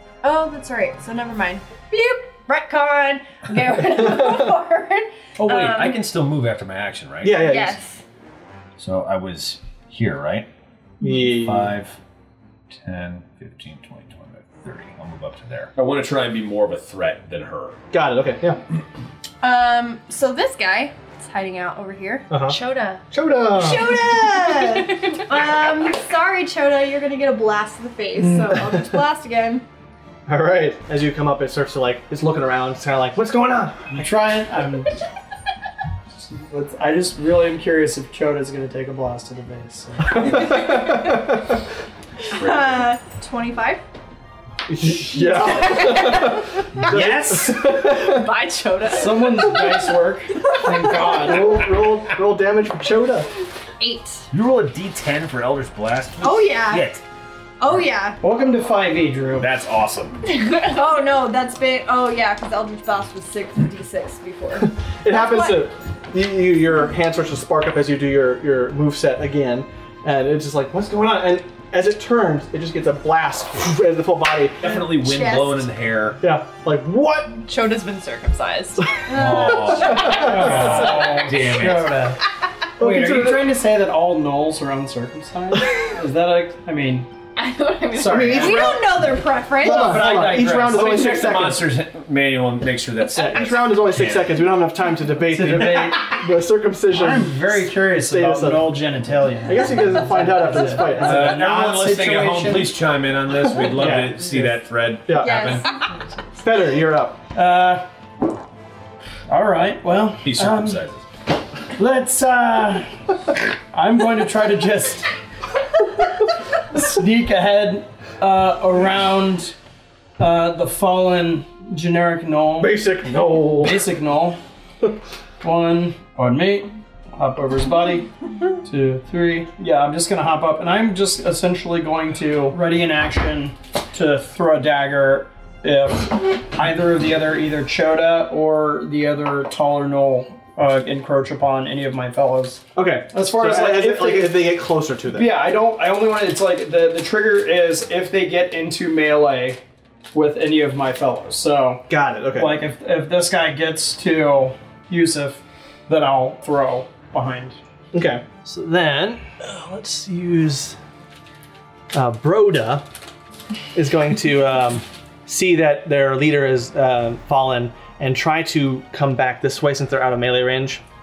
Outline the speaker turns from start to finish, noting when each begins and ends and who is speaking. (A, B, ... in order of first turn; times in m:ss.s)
0:00.2-0:06.0 A
0:04.0-0:04.4 B
0:05.4-0:07.7 C
0:07.2-0:07.8 B
0:07.4-0:08.0 A
0:08.8-0:10.5 C
0:11.0-0:11.8 B
0:11.0-0:12.0 C
0:12.7-0:17.8 C
0:17.9-0:18.6 B
0:19.4-0:22.3 A
0:22.3-0:22.6 B
0:22.5-0:23.0 D
0:23.1-0:23.9 B
0:23.5-0:29.6 A
0:24.5-0:25.2 D
0:28.2-0:28.5 E
0:30.3-0:34.0 B
0:33.9-0:34.9 E
0:36.2-0:40.8 E
0:40.1-0:41.5 B
0:42.3-0:43.8 A
0:42.3-0:42.9 C
0:44.7-0:48.3 B
0:45.1-0:46.2 A
0:46.8-0:47.8 E
0:47.9-0:49.7 D
0:48.9-0:51.6 E
0:51.1-0:53.3 B
0:53.8-0:54.2 A
0:54.3-0:57.0 C
0:56.2-0:56.9 A
0:57.6-0:58.2 A
0:58.2-0:59.5 E
0:59.4-1:00.3 C
1:00.6-1:05.6 A
1:04.6-1:14.7 B
1:14.6-1:16.2 C
1:14.6-1:15.6 A
1:16.2-1:17.4 B
1:17.4-1:19.0 D
1:19.1-1:22.0 C
1:19.1-1:20.1 A
1:19.8-1:21.1 D
1:19.9-1:20.7 B
1:20.1-1:22.2 E
1:22.8-1:23.5 B
1:22.8-1:27.1 E
1:27.4-1:28.8 D
1:28.0-1:28.7 E
1:28.0-1:28.8 B
1:28.3-1:30.2 A
1:29.5-1:31.5 E
1:29.6-1:31.6 B
1:30.7-1:34.4 C
1:33.1-1:38.8 B
1:35.2-1:36.2 E
1:36.9-1:42.8 E
1:39.4-1:41.4 B
1:41.0-1:45.7 C
1:43.6-1:45.6 B
1:45.2-1:45.8 A
1:46.3-1:47.2 B
1:47.3-1:47.9 E
1:49.3-1:50.8 E
1:50.2-1:51.0 C
1:51.7-1:53.0 E
1:53.7-1:55.1 E
1:56.7-1:59.6 E
2:00.2-2:02.8 E
2:02.6-2:03.8 B
2:03.6-2:04.4 E
2:05.4-2:08.1 E
2:08.6-2:29.6 E
2:22.7-2:25.3 B
2:30.1-2:37.6 E
2:31.9-2:32.6 B
2:37.9-2:40.8 B
2:41.9-2:42.8 B
2:43.7-2:50.8 B